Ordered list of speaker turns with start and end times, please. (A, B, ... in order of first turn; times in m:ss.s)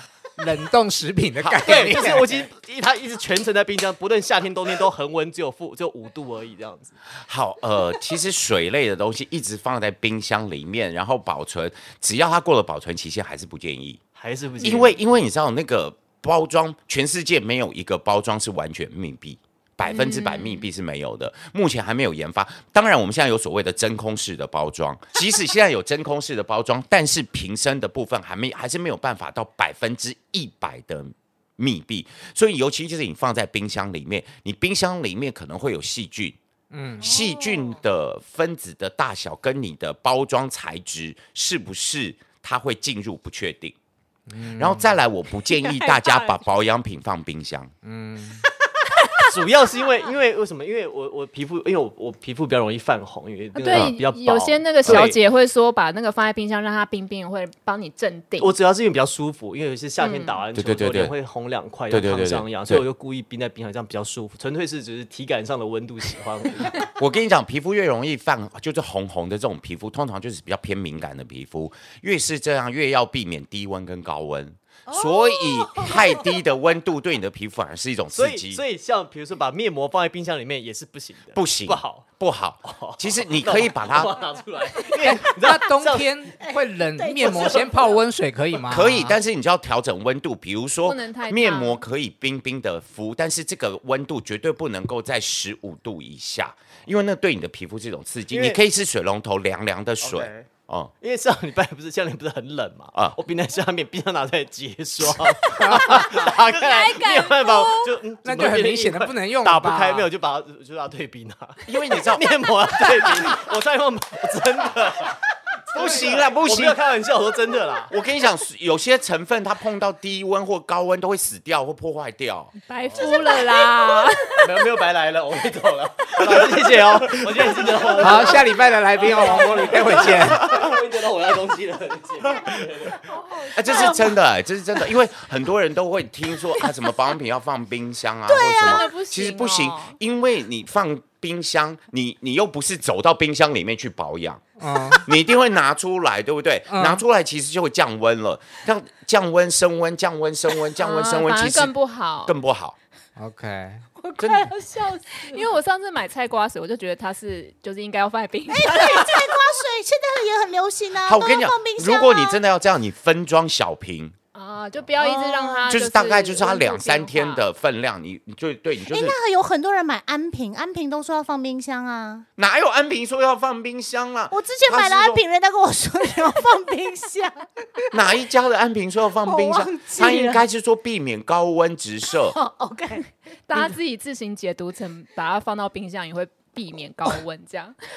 0:00.4-0:02.3 A
0:01.4-0:02.0 B
0:01.6-0:06.9 C
0:07.2-0:14.0 B
0:14.2-0:15.0 C
0:14.6-0:36.4 B
0:19.8-0:20.7 D
0:36.7-0:37.1 A
0:37.0-0:43.7 B
0:44.3-0:45.0 A
0:44.6-0:47.7 B
0:47.8-0:48.4 A
0:49.3-0:55.2 C
0:53.5-0:58.5 D
0:54.8-0:55.1 B
0:58.4-1:06.8 C
1:00.0-1:00.4 D
1:00.5-1:01.1 B
1:01.9-1:02.8 B
1:06.9-1:18.6 B
1:14.9-1:16.2 E
1:18.1-1:22.0 C
1:21.3-1:24.2 B
1:22.6-1:26.3 C
1:25.0-1:29.2 A
1:26.4-1:28.0 E
1:27.2-1:27.7 C
1:28.7-1:40.9 B
1:30.8-1:31.8 D
1:38.3-1:38.6 C
1:40.0-1:40.5 C
1:41.0-1:57.9 C
1:42.9-1:43.2 B
1:45.8-1:48.0 D
1:48.2-1:50.1 A
1:51.6-1:52.3 B
1:55.7-1:56.8 B
1:57.9-2:02.5 B
2:02.7-2:04.5 D
2:02.9-2:03.3 C
2:04.4-2:13.0 C
2:08.0-2:10.4 A
2:13.2-2:14.1 D
2:13.5-2:32.8 B
2:13.6-2:14.1 E
2:18.3-2:18.9 E
2:18.6-2:20.0 D
2:24.6-2:25.0 A
2:26.7-2:27.0 A
2:30.8-2:32.3 D
2:33.2-2:33.8 A
2:34.0-2:34.9 E
2:34.2-2:34.5 B
2:34.8-2:39.4 D
2:38.5-2:42.4 E
2:41.0-2:44.2 B
2:44.3-2:47.4 D
2:45.0-2:45.7 E
2:45.7-2:49.2 B
2:48.8-2:52.2 E
2:52.4-2:55.2 B
2:54.3-2:58.0 E
2:57.9-3:02.4 B
2:59.2-3:00.4 E
3:02.3-3:03.0 E
3:03.5-3:07.7 D